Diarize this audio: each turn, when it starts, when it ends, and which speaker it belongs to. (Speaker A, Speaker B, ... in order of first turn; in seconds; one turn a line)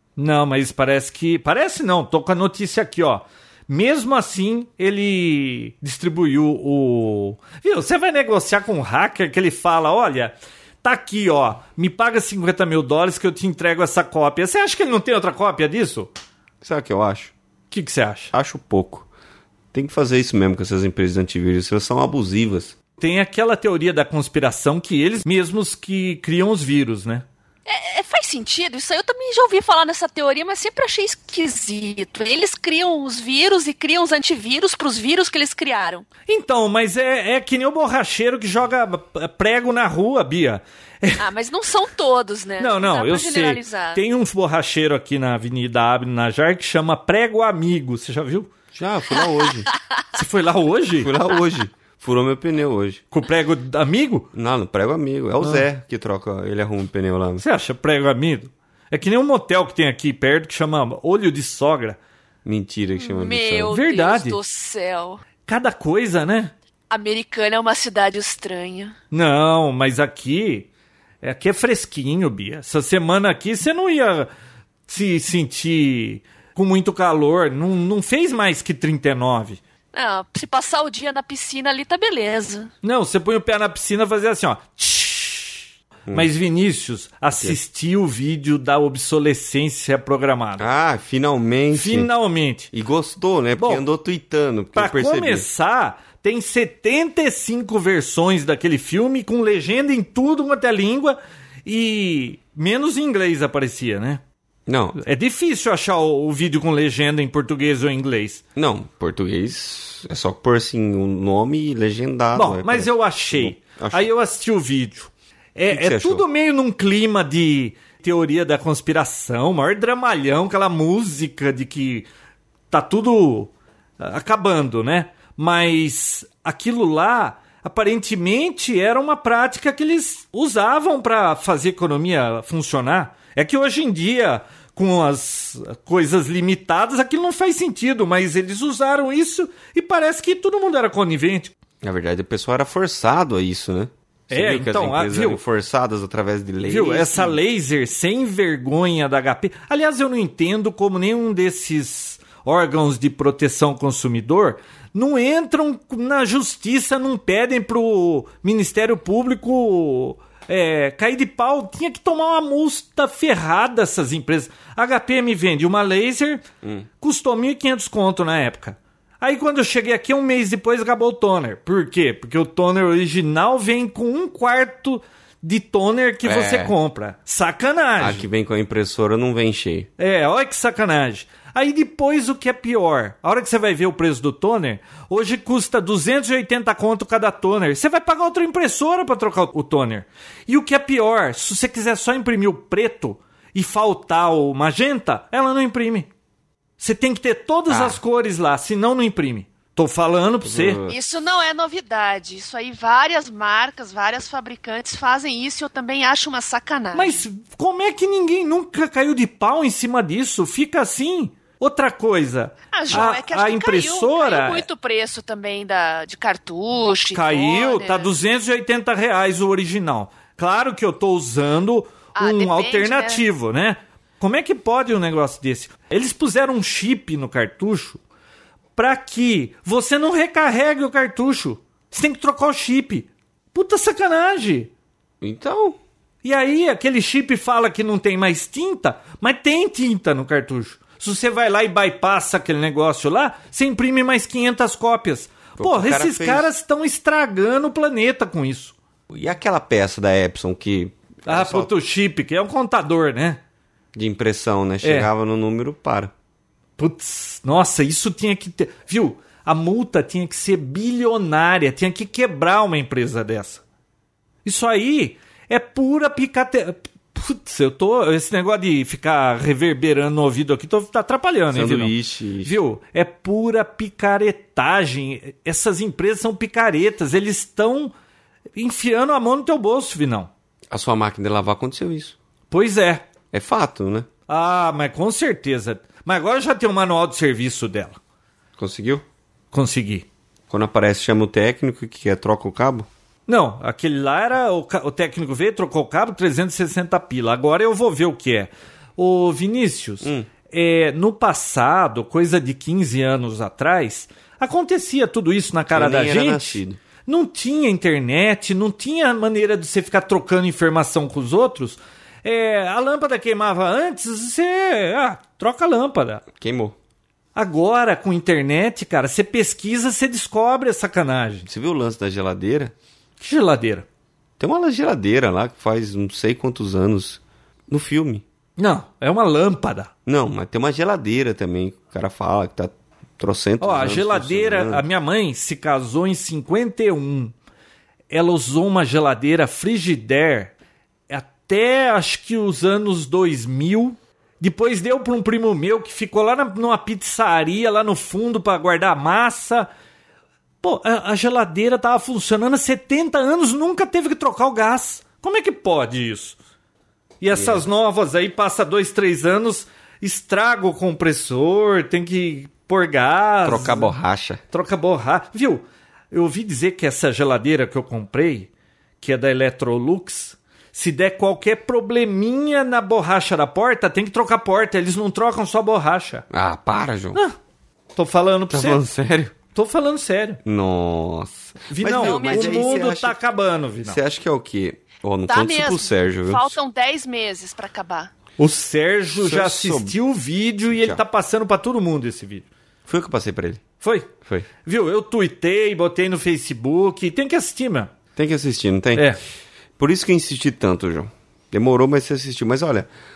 Speaker A: 0.2-16.1
Speaker B: 16.6-17.3
Speaker A: 17.7-18.3
Speaker B: 18.3-19.1
Speaker B: 19.7-22.8
Speaker A: 23.0-27.3
Speaker C: 27.7-36.1
Speaker A: 36.3-41.2
Speaker C: 41.2-44.0
Speaker A: 42.6-48.5
Speaker B: 48.7-49.7
Speaker C: 49.2-50.0
Speaker A: 50.1-51.1
Speaker B: 51.0-53.0
Speaker A: 53.1-54.3
Speaker B: 54.3-57.4
Speaker A: 55.4-55.6
Speaker A: 57.4-62.0
Speaker B: 62.5-63.8
Speaker C: 63.0-65.2
Speaker A: 63.7-64.4
Speaker A: 65.5-66.5
Speaker C: 66.9-69.0
Speaker A: 69.1-70.7
Speaker A: 71.2-74.3
Speaker A: 74.9-79.6
Speaker C: 79.9-82.7
Speaker A: 82.8-90.7
Speaker B: 90.6-92.1
Speaker A: 91.7-92.7
Speaker B: 92.7-95.5
Speaker A: 94.8-104.2
Speaker B: 104.7-105.0
Speaker A: 105.0-108.4
Speaker B: 108.6-114.1
Speaker A: 112.3-122.1
Speaker B: 115.7-116.2
Speaker A: 122.7-141.5
Speaker B: 141.8-147.4
Speaker A: 144.3-145.4
Speaker A: 146.7-166.4
Speaker B: 166.6-166.9
Speaker A: 167.0-178.2
Speaker B: 176.2-176.8
Speaker B: 178.0-179.9
Speaker A: 180.0-196.1
Speaker A: 196.8-200.8
Speaker B: 197.7-198.0
Speaker B: 200.4-201.0
Speaker C: 200.9-207.2
Speaker A: 206.9-214.7
Speaker C: 212.7-218.1
Speaker A: 217.1-228.0
Speaker C: 222.2-223.2
Speaker A: 228.8-234.7
Speaker B: 235.2-235.8
Speaker A: 236.2-248.8
Speaker B: 245.6-246.5
Speaker B: 249.1-251.7
Speaker A: 251.3-253.4
Speaker B: 253.9-256.1
Speaker A: 254.8-255.1
Speaker A: 256.8-263.6
Speaker A: 264.4-277.9
Speaker B: 271.5-272.6
Speaker A: 278.6-280.3
Speaker B: 280.7-282.2
Speaker A: 282.5-283.1
Speaker B: 283.3-284.1
Speaker A: 284.3-288.0
Speaker B: 288.6-289.0
Speaker A: 289.5-290.1
Speaker B: 290.5-292.9
Speaker A: 293.3-316.2
Speaker B: 300.0-300.3
Speaker B: 305.7-306.8
Speaker B: 316.3-316.8
Speaker A: 317.4-321.5
Speaker B: 321.5-322.7
Speaker A: 323.2-323.9
Speaker B: 324.4-328.2
Speaker A: 328.6-329.9
Speaker B: 330.1-334.8
Speaker A: 333.6-337.3
Speaker A: 338.1-340.5
Speaker A: 341.1-349.7
Speaker A: 350.6-356.4
Speaker A: 357.2-363.9
Speaker B: 357.3-357.6
Speaker B: 363.4-364.4
Speaker A: 364.5-368.5
Speaker A: 369.0-376.3
Speaker B: 376.3-377.2
Speaker A: 377.9-378.8
Speaker B: 378.5-379.3
Speaker A: 379.5-380.4
Speaker B: 380.4-383.2
Speaker A: 381.7-384.0
Speaker C: 381.9-382.9
Speaker B: 383.8-386.6
Speaker C: 385.3-388.1
Speaker A: 388.4-392.5
Speaker B: 389.1-390.0
Speaker B: 390.8-391.0
Speaker B: 392.9-393.6
Speaker A: 393.8-394.1
Speaker A: 394.6-397.9
Speaker B: 398.2-399.1
Speaker B: 399.8-402.9